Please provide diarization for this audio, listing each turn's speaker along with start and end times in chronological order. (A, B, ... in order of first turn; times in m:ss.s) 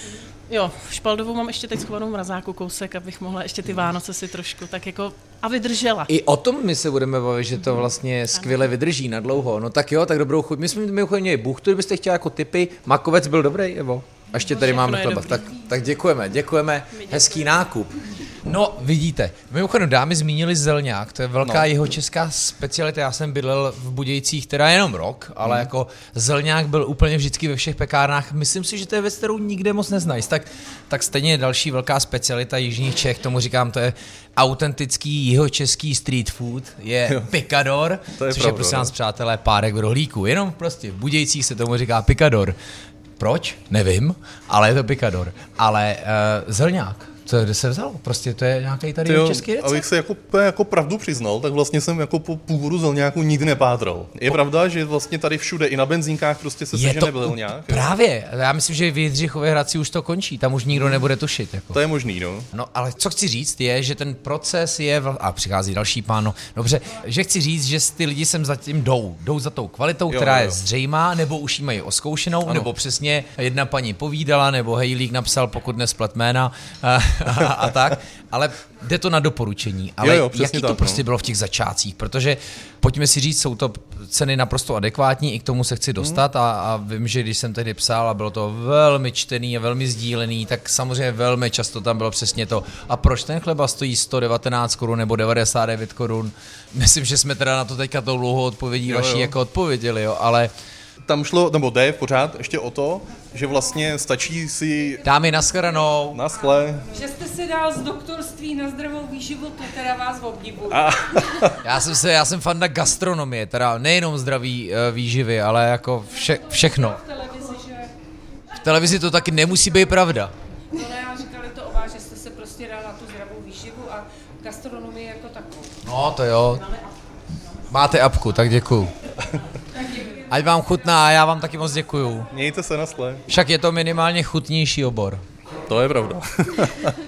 0:00.5-0:06.1 A
0:06.1-0:42.6 B
0:14.4-0:15.5 A
0:16.9-0:17.5 A
0:38.2-0:38.9 C
0:43.2-0:49.8 B
0:49.0-0:57.9 C
0:56.7-1:01.8 B
1:00.8-1:01.0 C
1:01.7-1:02.5 C
1:02.5-1:40.5 B
1:10.1-1:10.6 C
1:20.0-1:21.0 C
1:38.9-1:39.3 C
1:41.0-1:45.0 C
1:45.0-1:46.2 B
1:46.1-1:46.9 C
1:46.9-1:51.5 D
1:50.7-1:51.6 C
1:51.6-1:57.0 B
1:56.3-1:57.9 D
1:58.6-2:00.3 B
2:00.7-2:05.7 D
2:05.8-2:06.7 B
2:07.7-2:08.9 B
2:09.8-2:10.2 D
2:10.3-2:12.3 B
2:12.3-2:13.2 C
2:13.3-2:15.2 B
2:15.7-2:17.0 C